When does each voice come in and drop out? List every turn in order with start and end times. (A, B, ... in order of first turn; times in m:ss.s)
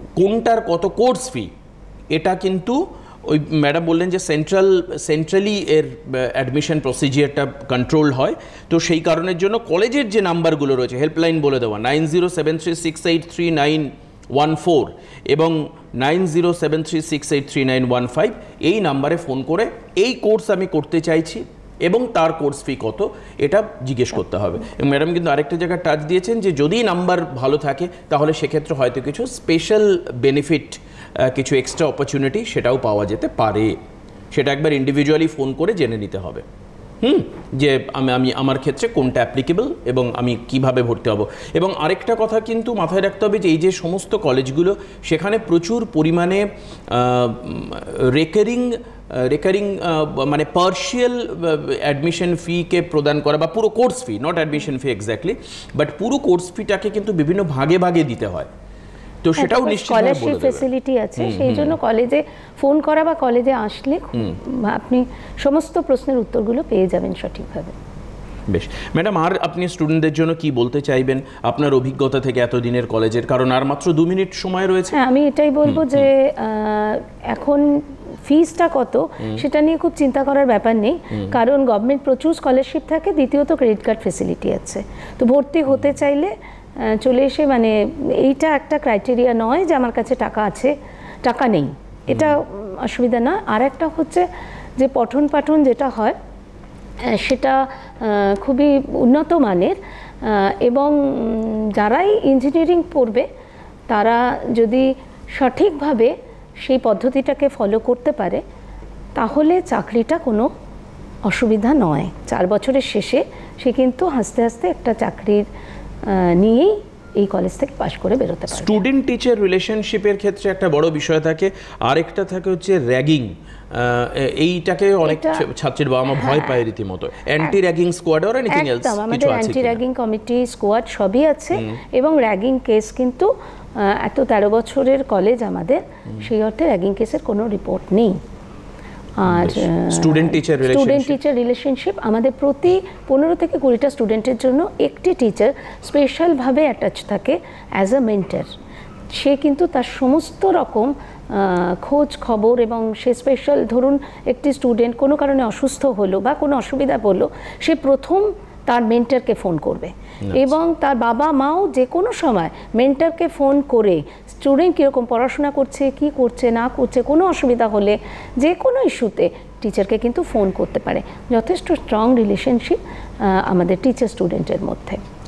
0:00.2-0:01.5 A
0:02.1-0:33.8 A
0:34.3-0:36.4 A
0:37.0-0:58.5 A
0:59.2-1:00.6 A
0:59.4-1:07.7 B
1:01.2-1:01.8 A
1:08.5-1:15.0 A
1:14.9-1:34.3 B
1:15.6-1:16.0 A
1:34.8-1:36.2 B
1:37.0-1:43.2 B
1:43.9-1:48.4 B
1:49.2-1:50.5 B
1:51.2-1:55.4 B
1:56.0-1:58.8 B
1:58.5-2:09.8 A
2:05.0-2:05.4 B
2:08.5-2:18.2 B
2:19.2-2:28.5 B
2:19.3-2:21.2 A
2:29.1-2:55.0 B
2:40.2-2:40.5 A